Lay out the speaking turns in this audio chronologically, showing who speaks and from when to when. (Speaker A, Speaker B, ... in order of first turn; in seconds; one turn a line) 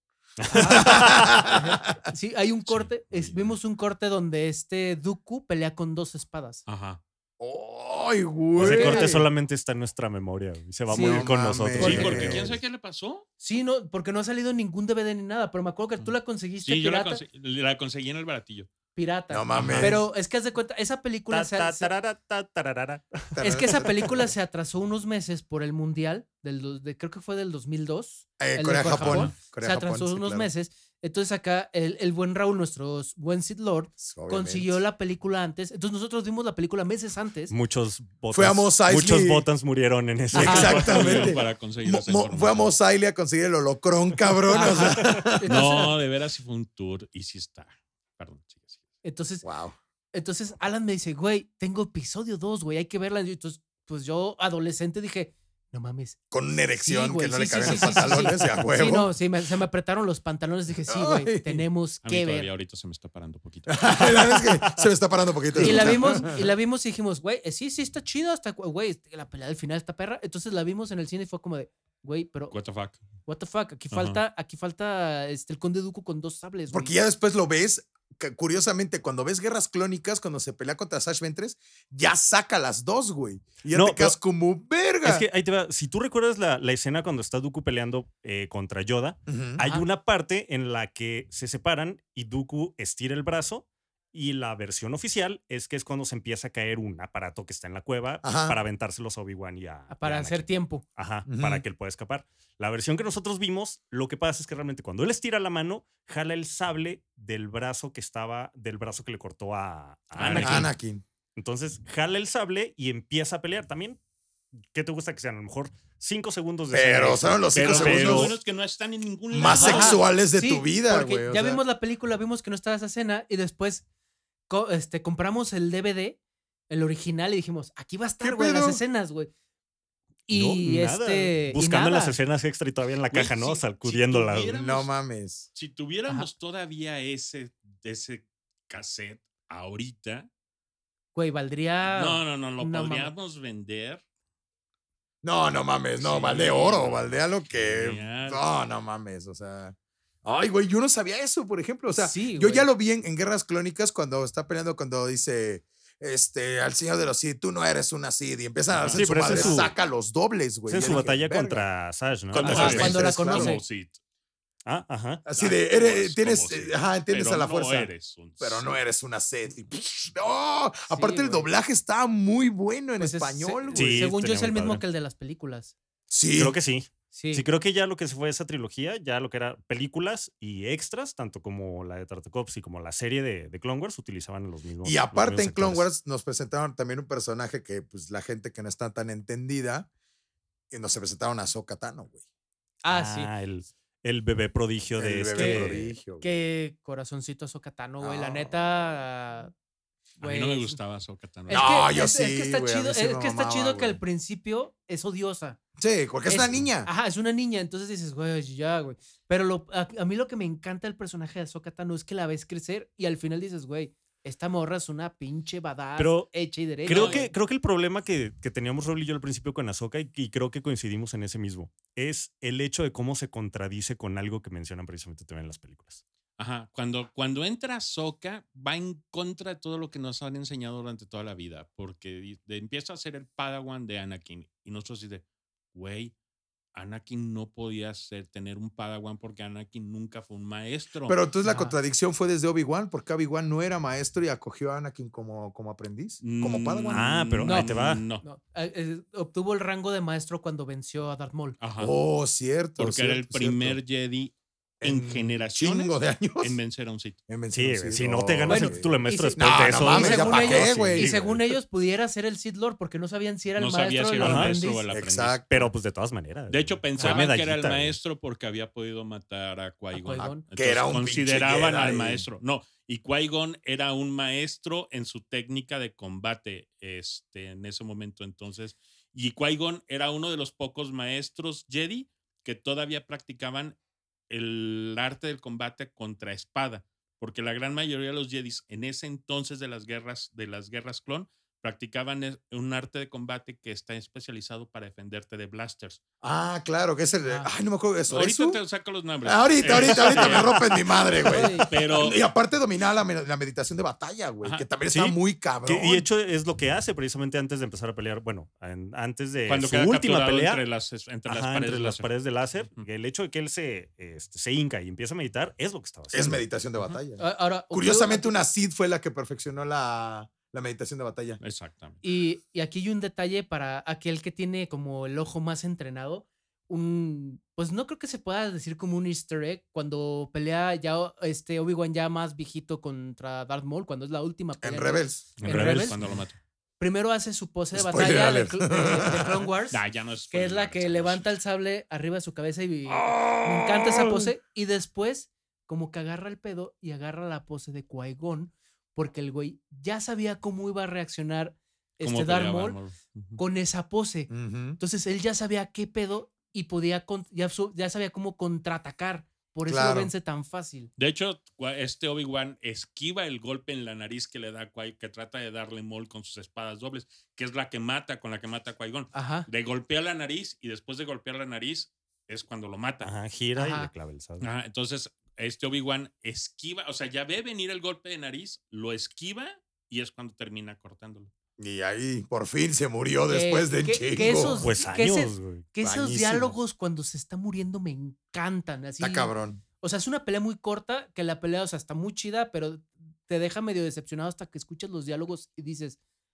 Speaker A: 0.4-1.4
Speaker B: 0.5-6.6
Speaker C: 0.6-1.9
Speaker D: 2.7-3.4
Speaker D: 6.7-7.0
Speaker C: 7.4-9.2
Speaker B: 8.6-9.2
Speaker A: 8.6-12.5
Speaker B: 10.9-12.2
Speaker C: 10.9-12.6
Speaker D: 11.8-13.2
Speaker B: 13.4-17.2
Speaker D: 16.6-18.7
Speaker B: 18.9-21.9
Speaker C: 19.3-20.0
Speaker D: 19.5-19.9
Speaker A: 19.6-19.9
Speaker A: 21.3-23.6
Speaker C: 23.4-24.2
Speaker B: 23.4-37.5
Speaker C: 28.4-30.5
Speaker D: 29.0-29.3
Speaker C: 34.0-34.8
Speaker A: 37.5-41.3
Speaker C: 38.3-39.5
Speaker C: 40.3-45.5
Speaker B: 40.4-41.3
Speaker D: 40.4-42.8
Speaker B: 44.5-45.9
Speaker D: 45.4-48.8
Speaker B: 49.0-49.4
Speaker C: 49.4-49.8
Speaker B: 50.1-62.5
Speaker C: 56.3-59.1
Speaker D: 57.6-58.0
Speaker C: 60.9-61.6
Speaker D: 62.0-64.2
Speaker C: 63.7-66.4
Speaker B: 65.6-72.5
Speaker D: 72.5-73.0
Speaker B: 73.2-76.9
Speaker D: 73.9-74.2
Speaker C: 76.7-85.2
Speaker A: 83.7-84.2
Speaker A: 85.0-110.7
Speaker C: 89.3-89.6
Speaker C: 98.2-98.6
Speaker B: 99.9-100.8
Speaker C: 101.3-101.6
Speaker D: 110.1-110.7
Speaker C: 110.3-111.0
Speaker A: 111.3-114.0
Speaker A: 114.7-118.4
Speaker C: 116.7-118.3
Speaker D: 117.5-120.1
Speaker C: 119.3-121.6
Speaker B: 119.5-123.8
Speaker B: 124.5-126.2
Speaker B: 126.7-129.3
Speaker C: 128.2-128.8
Speaker B: 130.3-132.2
Speaker A: 130.3-134.5
Speaker D: 133.1-134.9
Speaker C: 134.5-135.5
Speaker D: 135.5-140.3
Speaker B: 141.1-143.1
Speaker D: 141.8-144.0
Speaker C: 145.2-161.6
Speaker D: 146.0-148.5
Speaker B: 151.9-152.7
Speaker D: 158.7-159.7
Speaker A: 158.9-159.7
Speaker A: 160.7-163.1
Speaker D: 162.3-164.0
Speaker C: 162.3-163.6
Speaker B: 162.4-163.6
Speaker A: 164.6-165.2
Speaker C: 165.2-174.1
Speaker D: 165.3-168.8
Speaker B: 170.9-171.5
Speaker B: 173.0-175.8
Speaker A: 173.7-174.8
Speaker C: 176.1-176.6
Speaker A: 176.3-185.9
Speaker B: 177.1-177.5
Speaker C: 184.8-189.9
Speaker C: 190.7-192.2
Speaker B: 192.8-193.3
Speaker A: 192.9-195.9
Speaker C: 195.0-196.3
Speaker B: 195.3-199.5
Speaker C: 198.0-198.5
Speaker D: 200.2-201.8
Speaker B: 200.2-200.8
Speaker B: 201.5-205.6
Speaker C: 201.5-204.0
Speaker C: 205.8-206.9
Speaker B: 206.3-217.3
Speaker A: 216.0-216.3
Speaker A: 216.8-226.0
Speaker D: 216.9-217.3
Speaker D: 226.4-236.1
Speaker D: 236.8-241.2
Speaker C: 241.1-247.1
Speaker B: 241.4-241.8
Speaker D: 246.2-248.2
Speaker A: 246.9-248.0
Speaker B: 247.4-251.6
Speaker D: 251.6-252.0
Speaker C: 251.8-253.8
Speaker D: 252.8-257.2
Speaker C: 254.8-256.6
Speaker C: 257.3-261.1
Speaker A: 257.5-261.4
Speaker B: 258.5-264.9
Speaker D: 263.6-265.6
Speaker A: 264.2-264.6
Speaker C: 264.9-265.5
Speaker A: 265.5-268.0
Speaker D: 266.5-283.8
Speaker B: 267.0-267.2
Speaker B: 269.9-270.4
Speaker C: 270.5-272.2
Speaker D: 284.3-296.0
Speaker C: 296.2-298.6
Speaker B: 297.2-297.5
Speaker D: 298.1-302.2
Speaker C: 299.2-306.1
Speaker A: 299.8-300.6
Speaker B: 301.3-301.7
Speaker A: 304.9-310.6
Speaker D: 309.5-312.1
Speaker A: 311.3-316.4
Speaker C: 316.1-321.4
Speaker B: 317.2-318.3
Speaker D: 321.4-322.0
Speaker B: 322.0-336.0
Speaker C: 334.6-335.3
Speaker A: 335.4-336.0
Speaker D: 335.4-336.4
Speaker B: 336.8-339.8
Speaker C: 337.7-339.4
Speaker D: 339.7-341.2
Speaker B: 340.3-352.8
Speaker C: 342.9-344.3
Speaker D: 352.0-353.4
Speaker B: 353.4-360.9
Speaker C: 354.3-354.8
Speaker C: 359.7-360.1
Speaker D: 361.0-373.1
Speaker B: 369.1-369.5
Speaker A: 373.0-374.5
Speaker B: 373.6-373.9
Speaker D: 374.4-381.3
Speaker C: 381.6-384.6
Speaker B: 383.3-396.0
Speaker A: 384.6-385.7
Speaker C: 385.8-386.6
Speaker C: 389.0-389.6